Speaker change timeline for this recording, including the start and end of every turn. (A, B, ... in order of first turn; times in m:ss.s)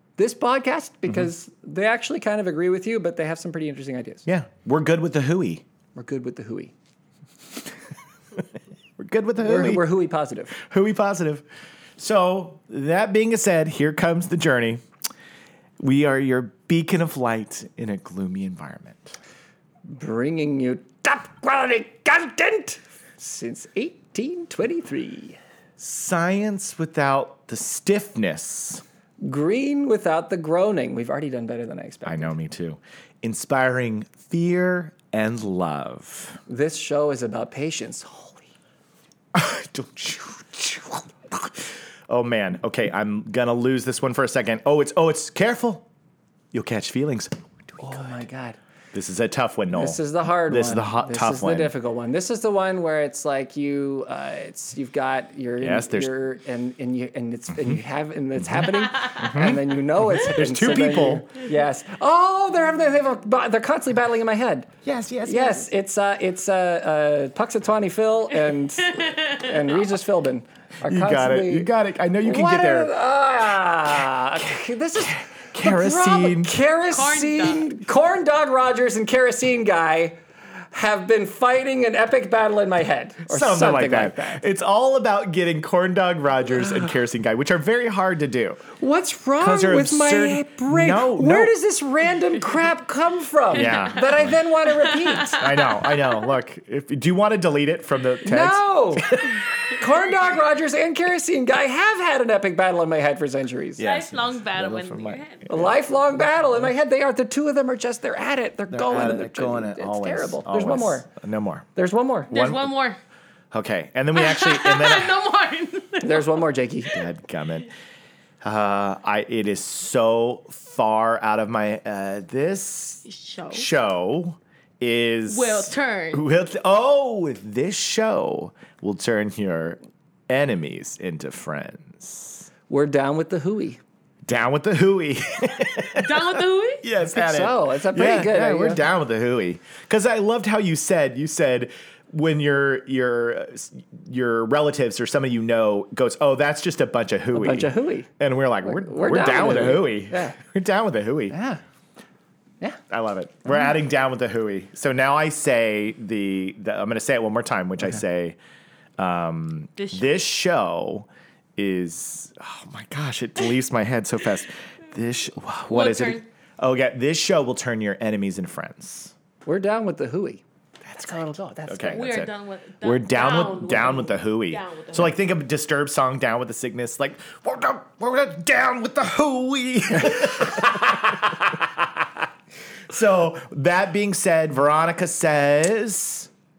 0:00.2-0:04.2 A
0:04.2-0:05.6 B
0:05.9-0:06.7 A
0:09.0-0:09.9 B
0:09.4-0:10.6 A
0:10.5-0:11.4 B
0:12.0-0:14.8 B
0:15.8-0:19.2 B
0:19.9-0:25.4 A
0:25.8-0:28.8 B
0:29.2-0:32.3 A
0:32.0-0:36.4 B
0:36.5-0:38.4 A
0:39.3-0:45.9 B
0:46.5-0:48.2 B
0:47.8-0:48.6 A
0:48.9-0:51.7 B
0:49.7-1:04.7 A
0:55.6-0:56.1 B
0:57.5-0:57.8 B
0:58.4-1:01.3 B
1:04.8-1:05.7 B
1:05.2-1:11.7 A
1:10.8-1:12.9 B
1:12.2-1:20.2 A
1:15.5-1:16.5 B
1:16.9-1:17.6 C
1:20.7-1:24.4 A
1:23.3-1:28.6 B
1:28.8-1:35.4 A
1:29.4-1:31.5 B
1:33.5-1:34.4 B
1:33.7-1:36.1 C
1:35.3-1:39.4 B
1:38.2-1:43.8 A
1:43.8-1:45.8 B
1:43.8-1:45.7 C
1:45.5-1:51.1 A
1:48.7-1:51.7 B
1:51.8-1:52.3 A
1:52.3-1:52.7 B
1:52.3-1:53.0 C
1:53.5-1:55.2 B
1:54.1-1:56.4 C
1:56.0-1:57.0 A
1:56.8-1:57.7 B
1:58.4-2:12.5 B
2:03.0-2:03.6 C
2:05.3-2:06.2 C
2:12.7-2:13.8 A
2:14.2-2:31.4 B
2:15.9-2:16.8 C
2:17.0-2:18.8 A
2:27.3-2:28.1 A
2:28.6-2:30.4 A
2:31.3-2:31.6 A
2:32.9-2:38.4 B
2:39.0-2:49.1 B
2:45.7-2:46.2 C
2:49.4-2:52.1 A
2:51.6-3:01.8 B
2:51.9-2:55.1 C
3:02.9-3:06.3 B